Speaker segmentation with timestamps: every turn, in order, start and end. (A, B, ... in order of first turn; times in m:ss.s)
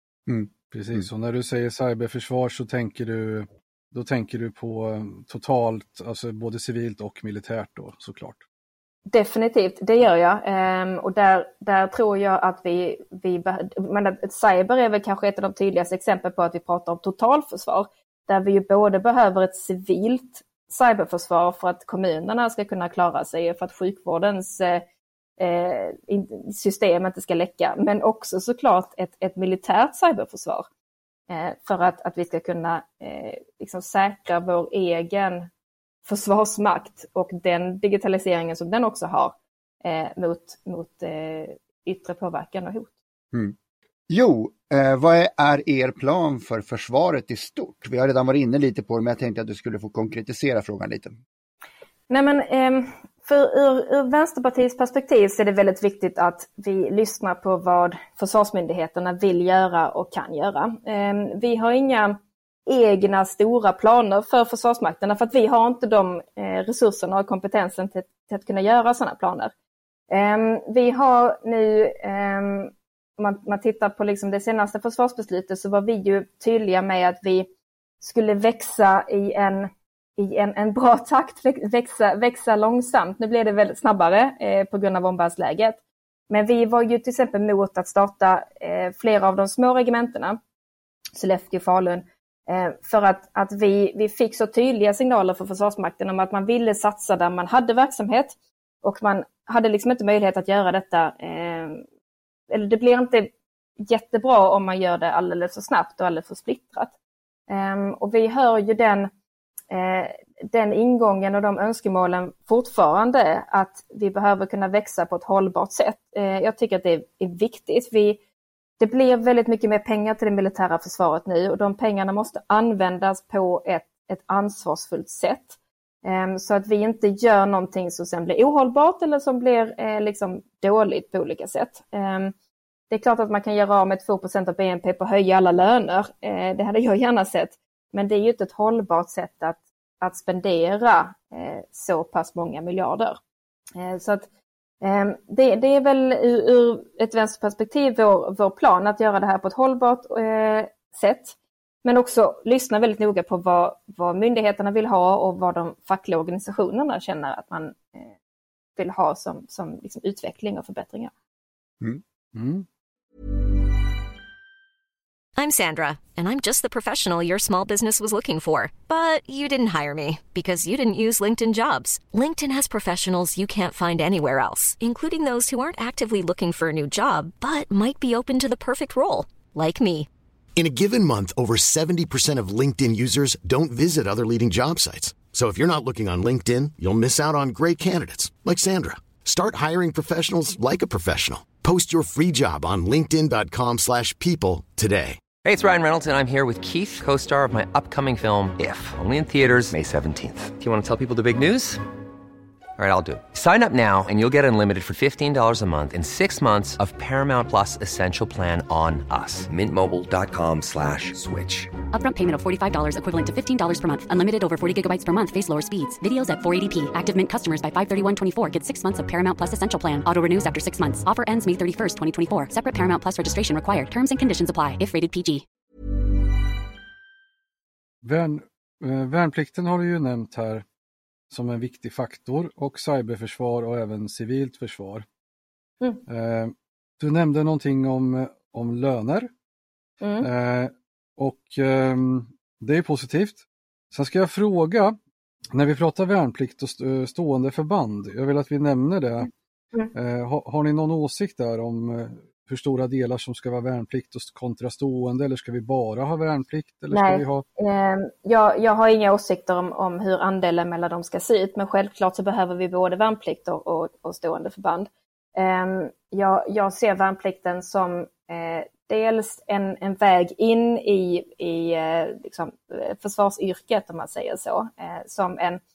0:00.3-0:01.1 A
0:00.7-0:08.4 B
0:09.1-0:24.8 C
0:25.4-0:30.7 C
0:31.3-0:35.5 C
0:36.0-0:42.9 C
0:44.1-0:51.1 A
0:52.1-1:09.5 C
1:10.1-1:17.5 C
1:18.0-1:30.4 C
1:31.2-1:41.8 C
1:42.5-1:47.0 C
1:47.5-1:49.1 C
1:49.7-1:58.2 C
1:58.8-2:12.3 C
2:12.9-2:23.2 C
2:23.8-2:24.3 C
2:24.8-2:38.1 C
2:38.8-2:41.1 C
2:42.4-2:42.7 B
2:45.4-3:00.1 D
3:00.6-3:15.2 E
3:15.4-3:21.8 F
3:22.8-3:31.7 F
3:31.9-3:45.4 G
3:48.0-3:50.6 B
3:51.3-3:55.1 B
3:56.1-3:59.3 B
4:00.0-4:00.3 C
4:00.2-4:05.0 B
4:05.5-4:09.3 B
4:09.9-4:17.4 B
4:16.9-4:35.6 C